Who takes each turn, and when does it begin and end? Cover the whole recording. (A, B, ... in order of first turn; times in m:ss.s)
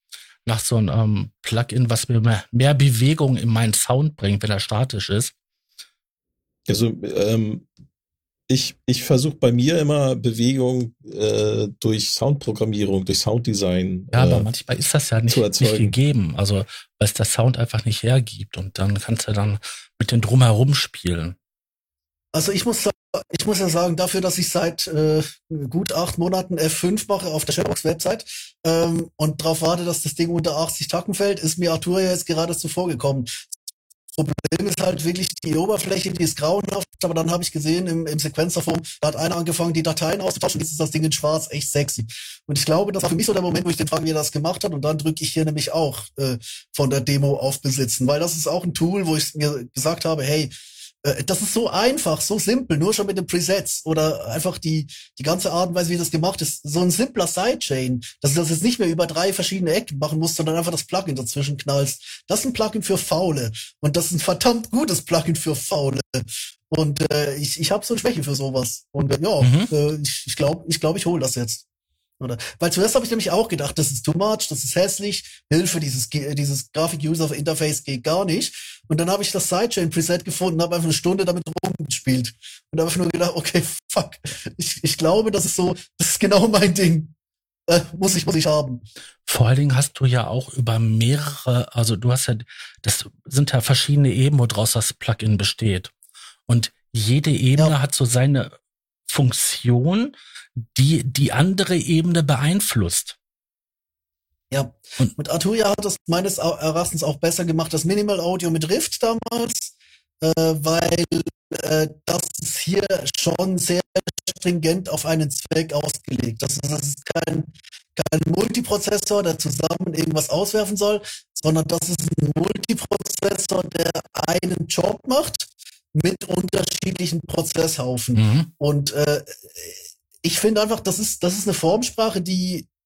0:00.5-0:05.3 A
0:06.7-0:07.7 B
0:08.5-0:14.5 B
0:14.1-0:21.4 A
0:15.3-0:16.0 B
0:22.3-0:33.4 C
0:34.2-0:50.5 C
0:51.0-1:11.6 C
1:09.4-1:09.7 A
1:12.2-1:27.1 C
1:27.7-1:28.8 C
1:29.3-1:35.9 A
1:36.5-1:38.5 A
1:39.1-1:43.2 A
1:44.5-2:12.7 C
2:08.2-2:08.5 A